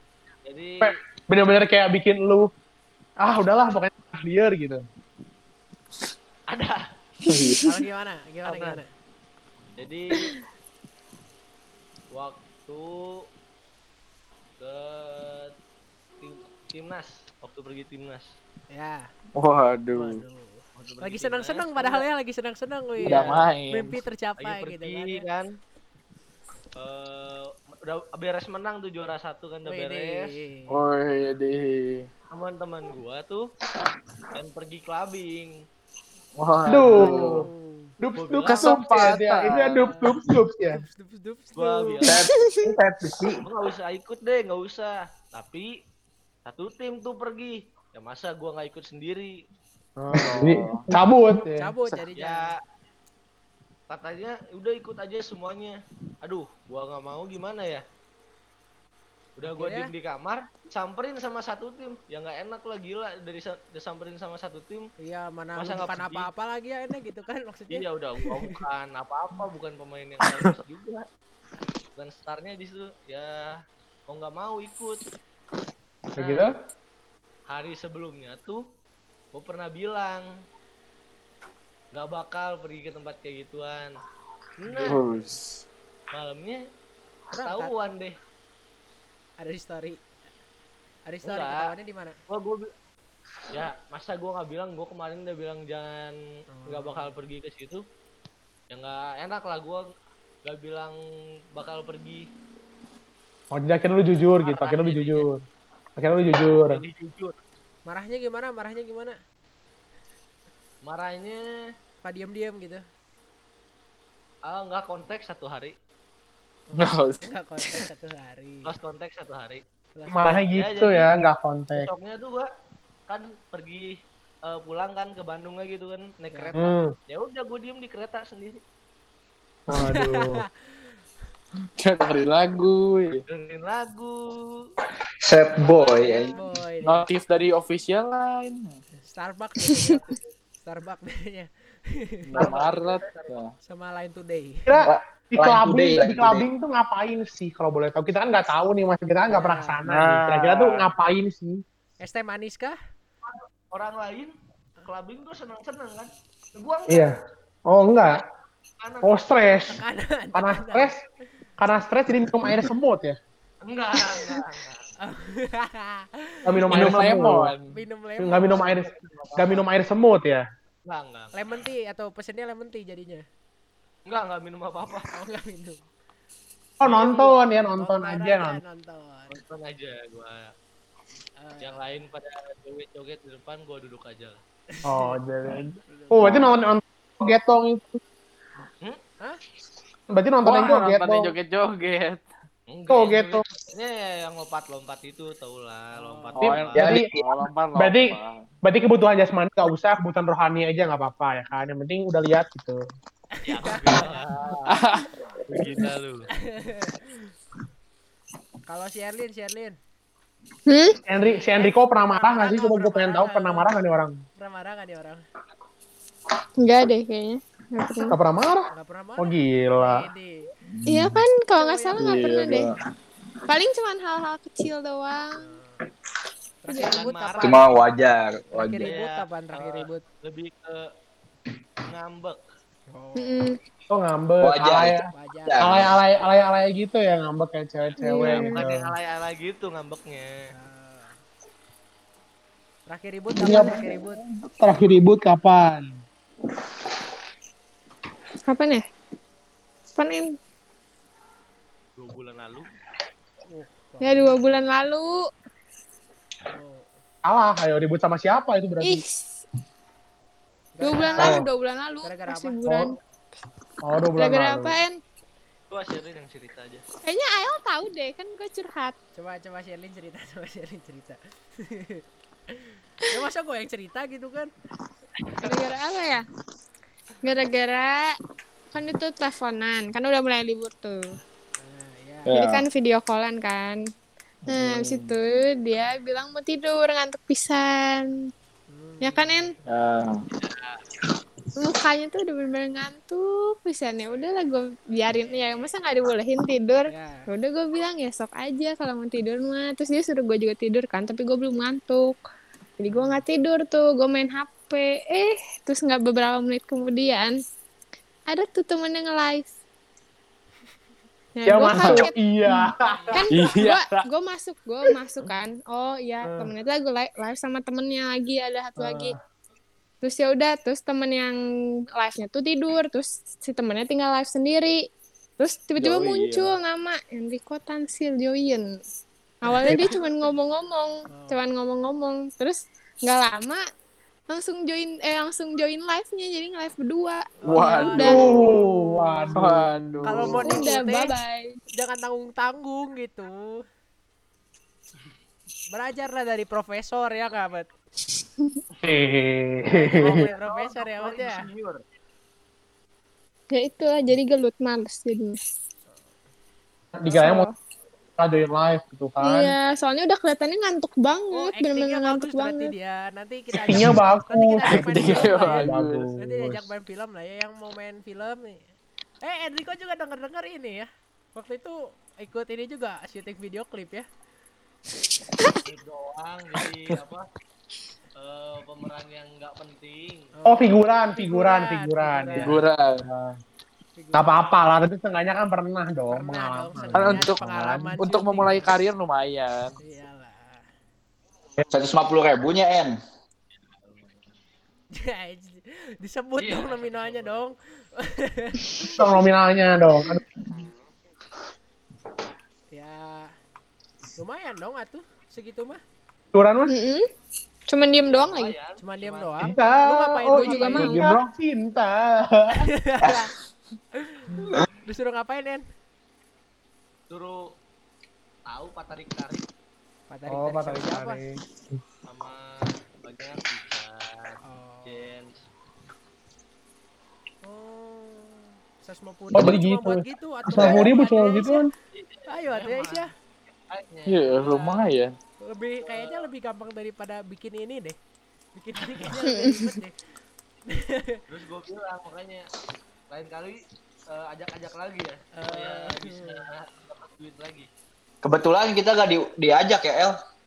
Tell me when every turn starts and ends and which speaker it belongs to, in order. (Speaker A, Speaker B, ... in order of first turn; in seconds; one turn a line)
Speaker A: 0.5-0.9
Speaker B: 0.8-2.5
Speaker B: 3.2-4.8
Speaker A: 6.5-6.8
Speaker C: 7.3-7.6
Speaker D: 7.3-7.6
Speaker E: 7.6-8.9
Speaker A: 8.5-8.8
Speaker A: 9.8-10.3
Speaker A: 12.2-13.2
Speaker A: 14.6-15.5
Speaker A: 16.2-18.3
Speaker E: 18.7-19.0
Speaker C: 19.4-20.2
Speaker E: 19.9-25.3
Speaker A: 20.8-22.0
Speaker C: 23.0-24.0
Speaker A: 23.1-23.4
Speaker A: 24.4-25.4
Speaker A: 26.8-30.3
Speaker E: 29.7-30.7
Speaker C: 30.7-32.1
Speaker A: 32.3-33.4
Speaker A: 34.3-35.5
Speaker C: 36.4-37.5
Speaker B: 36.7-37.4
Speaker E: 37.1-37.9
Speaker B: 38.0-40.8
Speaker A: 38.2-39.2
Speaker C: 38.4-39.9
Speaker E: 39.5-40.2
Speaker E: 40.7-42.0
Speaker A: 41.6-42.2
Speaker F: 42.0-43.5
Speaker D: 42.1-42.7
Speaker A: 43.4-45.7
Speaker A: 46.5-49.3
Speaker B: 50.0-51.7
Speaker C: 50.2-50.9
Speaker E: 51.6-52.5
Speaker A: 52.2-52.5
Speaker A: 53.9-57.8
Speaker A: 59.4-64.9
Speaker E: 59.5-59.9
Speaker E: 65.0-68.6
Speaker A: 65.6-66.3
Speaker A: 67.7-71.0
Speaker A: 72.0-73.5
Speaker A: 74.1-75.0
Speaker B: 76.2-76.5
Speaker A: 76.2-76.5
Speaker A: 77.5-78.6
Speaker A: 79.3-80.2
Speaker A: 81.9-83.9
Speaker A: 84.6-85.0
Speaker C: 84.7-85.4
Speaker A: 86.1-86.6
Speaker E: 87.3-87.7
Speaker A: 87.4-88.2
Speaker E: 89.4-90.0
Speaker E: 91.1-92.2
Speaker A: 91.2-91.6
Speaker A: 92.3-92.7
Speaker A: 93.5-96.2
Speaker E: 96.5-97.2
Speaker A: 96.7-97.8
Speaker A: 98.7-99.8
Speaker A: 100.5-101.0
Speaker A: 101.5-102.2
Speaker B: 103.5-105.4
Speaker A: 104.4-105.2
Speaker B: 106.0-106.8
Speaker A: 106.7-107.3
Speaker E: 107.9-109.2
Speaker A: 110.9-111.4
Speaker E: 112.0-112.8
Speaker A: 114.5-115.7
Speaker E: 116.7-118.7
Speaker C: 116.8-117.8
Speaker A: 118.7-119.6
Speaker E: 120.0-120.4
Speaker B: 120.1-121.9
Speaker A: 120.5-121.1
Speaker A: 121.8-122.5
Speaker A: 123.1-123.9
Speaker A: 124.5-128.6
Speaker B: 126.6-126.9
Speaker B: 129.7-130.4
Speaker E: 129.9-130.3
Speaker C: 131.8-133.2
Speaker A: 133.3-134.6
Speaker F: 135.2-136.4
Speaker A: 135.8-136.4
Speaker E: 135.9-137.1
Speaker C: 136.8-138.7
Speaker E: 139.0-142.5
Speaker C: 142.3-143.5
Speaker A: 142.4-143.4
Speaker E: 143.7-144.8
Speaker B: 144.7-151.6
Speaker F: 144.8-146.5
Speaker E: 149.3-149.8
Speaker C: 149.9-150.8
Speaker E: 152.0-152.8
Speaker A: 153.3-154.3
Speaker A: 154.9-157.1
Speaker B: 156.9-157.2
Speaker B: 157.7-158.2
Speaker A: 158.8-159.6
Speaker B: 159.0-159.8
Speaker E: 159.7-160.9
Speaker B: 160.3-161.0
Speaker B: 161.6-163.2
Speaker A: 163.7-164.9
Speaker E: 165.0-166.8
Speaker B: 166.5-167.5
Speaker C: 166.7-167.8
Speaker E: 167.7-168.8
Speaker B: 168.2-170.4
Speaker A: 168.6-169.6
Speaker A: 170.9-171.6
Speaker E: 171.3-173.2
Speaker A: 174.1-175.1
Speaker E: 175.1-175.8
Speaker B: 176.8-178.6
Speaker E: 176.8-179.3
Speaker A: 179.3-180.5
Speaker E: 181.4-181.8
Speaker A: 181.6-184.4
Speaker E: 184.7-185.2
Speaker B: 184.9-188.0
Speaker E: 185.9-186.5
Speaker B: 190.1-191.3
Speaker C: 190.5-192.3
Speaker A: 192.7-196.8
Speaker B: 192.9-193.4
Speaker E: 195.9-196.4
Speaker C: 196.3-198.4
Speaker B: 196.4-197.1
Speaker F: 196.7-197.4
Speaker B: 197.8-198.1
Speaker B: 198.6-202.8
Speaker E: 203.4-204.3
Speaker A: 203.5-204.8
Speaker C: 204.7-205.1
Speaker A: 205.5-206.3
Speaker E: 206.3-207.3
Speaker E: 208.7-209.8
Speaker D: 210.7-211.0
Speaker B: 211.1-214.2
Speaker E: 211.2-213.7
Speaker E: 214.4-215.2
Speaker D: 216.6-218.2
Speaker B: 218.1-220.1
Speaker E: 218.7-220.3
Speaker D: 220.9-222.7
Speaker E: 221.6-222.1
Speaker C: 222.0-222.8
Speaker D: 223.5-225.4
Speaker E: 225.3-225.8
Speaker E: 226.6-227.7
Speaker D: 226.7-227.1
Speaker A: 226.8-227.7
Speaker F: 227.4-228.9
Speaker E: 228.5-230.0
Speaker A: 228.8-230.8
Speaker A: 231.9-232.4
Speaker E: 232.9-233.4
Speaker D: 233.2-233.6
Speaker B: 233.9-235.0
Speaker F: 234.4-235.9
Speaker E: 235.1-235.7
Speaker B: 235.6-238.9
Speaker A: 238.0-240.3
Speaker D: 238.0-238.6
Speaker E: 240.5-241.2
Speaker E: 242.9-244.2
Speaker B: 243.4-245.9
Speaker D: 243.4-243.7
Speaker D: 248.5-248.8
Speaker D: 250.0-250.2
Speaker A: 252.0-252.7
Speaker E: 253.5-254.4
Speaker D: 254.0-255.2
Speaker E: 256.5-256.9
Speaker B: 257.3-259.0
Speaker D: 258.8-259.4
Speaker E: 260.8-261.4
Speaker D: 260.8-262.9
Speaker B: 261.2-261.4
Speaker E: 262.0-262.6
Speaker B: 262.7-262.9
Speaker B: 263.8-264.8
Speaker D: 264.2-265.0
Speaker A: 265.7-266.8
Speaker D: 267.0-269.0
Speaker E: 269.1-274.5
Speaker D: 275.4-276.2
Speaker D: 277.2-278.1
Speaker D: 278.7-281.1
Speaker E: 281.6-282.3
Speaker C: 282.3-282.7
Speaker D: 282.3-283.8
Speaker C: 284.5-285.1
Speaker D: 284.5-288.1
Speaker E: 288.7-289.6
Speaker D: 289.0-289.5
Speaker C: 289.7-290.1
Speaker A: 290.4-290.8
Speaker D: 291.6-302.2
Speaker E: 295.1-295.8
Speaker E: 296.9-297.3
Speaker D: 302.8-307.3
Speaker E: 302.9-303.2
Speaker D: 308.3-309.5
Speaker D: 311.4-319.1
Speaker B: 311.5-313.1
Speaker C: 311.8-312.1
Speaker E: 312.8-313.3
Speaker C: 313.3-314.1
Speaker E: 316.2-316.5
Speaker B: 318.8-319.1
Speaker D: 320.0-321.4
Speaker D: 322.0-324.8
Speaker D: 325.4-328.8
Speaker C: 325.8-326.5
Speaker D: 329.4-333.6
Speaker E: 331.1-331.4
Speaker D: 334.3-339.2
Speaker E: 337.4-338.3
Speaker C: 337.4-338.5
Speaker B: 338.0-340.4
Speaker C: 339.3-340.6
Speaker E: 340.0-341.2
Speaker D: 340.4-341.6
Speaker E: 341.7-343.6
Speaker E: 345.7-347.7
Speaker B: 348.8-350.2
Speaker E: 349.7-351.5
Speaker A: 350.0-351.8
Speaker D: 353.5-355.4
Speaker B: 357.0-357.5
Speaker D: 357.1-357.5
Speaker B: 358.2-359.6
Speaker D: 359.2-362.7
Speaker E: 361.3-368.6
Speaker C: 363.6-364.0
Speaker B: 363.7-366.6
Speaker C: 364.7-366.1
Speaker E: 369.2-374.1
Speaker A: 375.6-377.2
Speaker A: 378.2-380.3
Speaker E: 380.4-382.6
Speaker B: 380.5-383.4
Speaker C: 382.4-383.1
Speaker E: 384.0-384.3
Speaker B: 384.1-387.9
Speaker E: 386.1-388.8
Speaker C: 386.9-387.4
Speaker C: 388.0-389.8
Speaker E: 389.8-390.6
Speaker F: 391.7-393.0
Speaker A: 393.6-394.3
Speaker E: 394.9-399.0
Speaker A: 396.4-397.4
Speaker B: 398.9-400.2
Speaker E: 402.7-403.3
Speaker E: 404.2-405.8
Speaker B: 406.3-406.7
Speaker D: 406.7-407.1
Speaker D: 407.7-408.5
Speaker A: 408.1-409.6
Speaker E: 408.8-411.0
Speaker B: 409.4-412.7
Speaker D: 410.3-411.0
Speaker C: 410.8-411.3
Speaker E: 412.7-413.3
Speaker E: 414.0-415.6
Speaker A: 417.1-417.4
Speaker A: 418.5-419.4
Speaker E: 420.1-421.2
Speaker B: 420.3-421.8
Speaker A: 422.1-422.5
Speaker A: 423.1-424.3
Speaker E: 424.4-425.1
Speaker A: 424.9-425.4
Speaker E: 427.4-431.7
Speaker B: 429.4-431.7
Speaker A: 431.9-433.1
Speaker E: 432.3-433.1
Speaker A: 433.7-434.8
Speaker C: 434.1-435.1
Speaker E: 435.4-438.0
Speaker A: 435.9-436.3
Speaker E: 438.6-440.0
Speaker D: 439.2-439.8
Speaker E: 440.7-441.2
Speaker A: 441.3-442.5
Speaker A: 443.1-443.6
Speaker A: 444.1-447.7
Speaker E: 445.4-446.5
Speaker F: 448.2-450.2